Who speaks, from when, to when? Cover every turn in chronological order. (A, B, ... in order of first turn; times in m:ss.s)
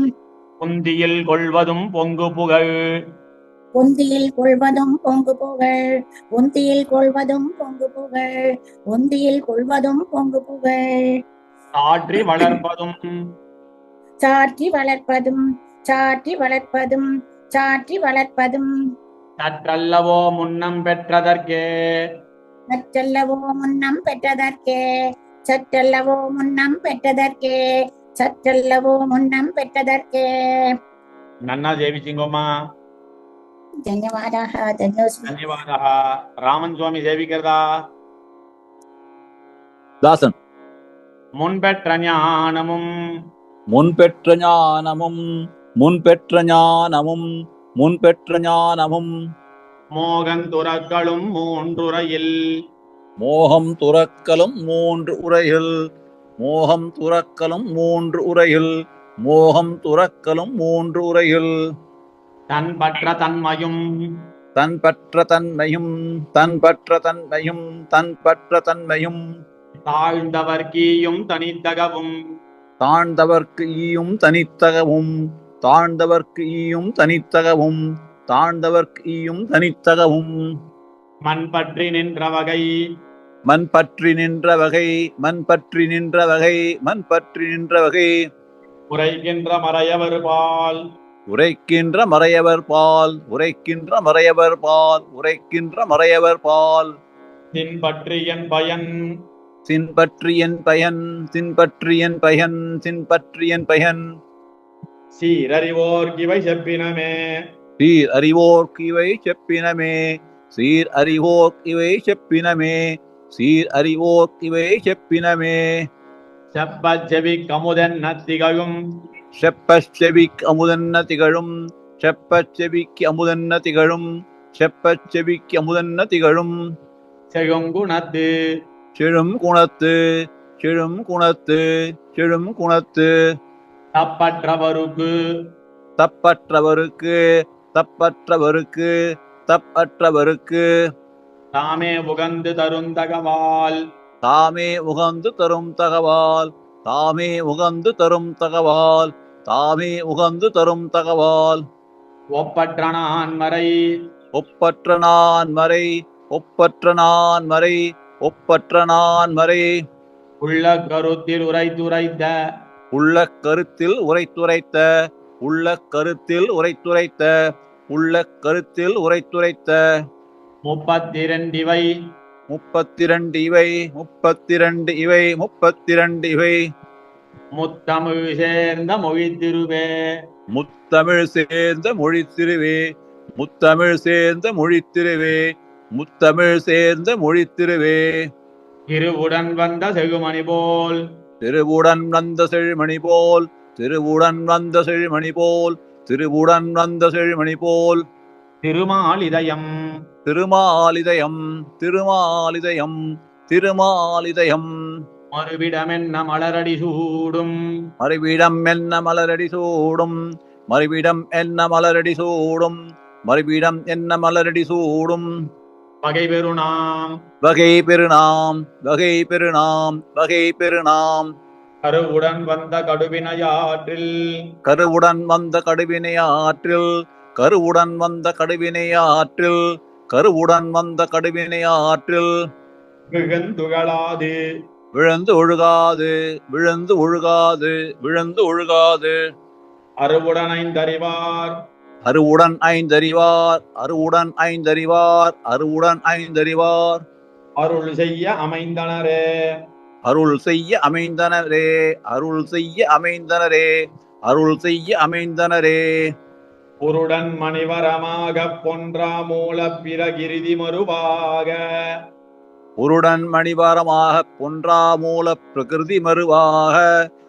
0:00.6-0:02.7 A
0:03.8-0:05.8 B
0:06.4-0:11.1 B
0:11.8-0:13.0 A
0:14.2-0:18.7 B
0:19.4-0:21.6 A
0:22.7-0:24.8 B
0:25.5-0:27.6 B
0:28.2-0:30.7 B
0:31.5-0:32.5 A
0:33.9-0:35.3 B
0:35.3-0:37.6 A
0:40.0-0:40.3 C
0:41.4-0:42.8 A
0:43.7-0:45.2 C
0:45.8-0:47.3 C
0:47.8-0:49.1 C
0:50.0-0:52.3 A
0:53.2-0:55.7 C
0:56.4-0:58.7 C
0:59.2-1:01.5 C
1:02.5-1:03.8 A
1:04.6-1:09.2 C
1:09.9-1:12.1 A
1:12.8-1:20.4 C
1:21.3-1:22.7 A
1:23.5-1:28.1 C
1:28.9-1:30.8 A
1:31.3-1:36.9 C
1:37.6-1:38.9 A
1:39.7-1:44.0 C
1:45.2-1:47.2 A
1:47.8-1:55.9 C
1:56.5-1:58.8 A
1:59.4-2:06.6 C
2:07.3-2:08.3 A
2:09.0-2:13.1 C
2:14.0-2:15.1 A
2:16.0-2:17.2 C
2:17.7-2:18.9 C
2:19.5-2:20.6 C
2:21.6-2:23.8 A
2:24.2-2:31.6 C
2:32.4-2:33.7 A
2:34.4-2:39.7 C
2:40.4-2:42.3 A
2:42.9-2:44.9 C
2:45.4-2:49.8 C
2:50.7-2:51.9 A
2:52.5-2:56.6 C
2:57.6-2:59.9 A
3:00.5-3:08.3 C
3:08.9-3:11.0 A
3:11.4-3:18.0 C
3:18.6-3:19.7 A
3:20.3-3:24.7 C
3:25.3-3:27.5 A
3:28.0-3:30.2 C
3:30.7-3:35.3 C
3:36.0-3:37.2 A
3:37.4-3:41.3 C
3:41.9-3:44.1 A
3:44.6-3:49.6 C
3:50.1-3:52.3 C
3:53.1-3:54.3 A
3:54.9-3:59.2 C
4:00.0-4:01.6 A
4:02.0-4:07.0 C
4:07.6-4:09.2 A
4:10.1-4:13.7 C
4:14.3-4:15.9 C
4:16.8-4:21.6 A
4:22.8-4:26.9 C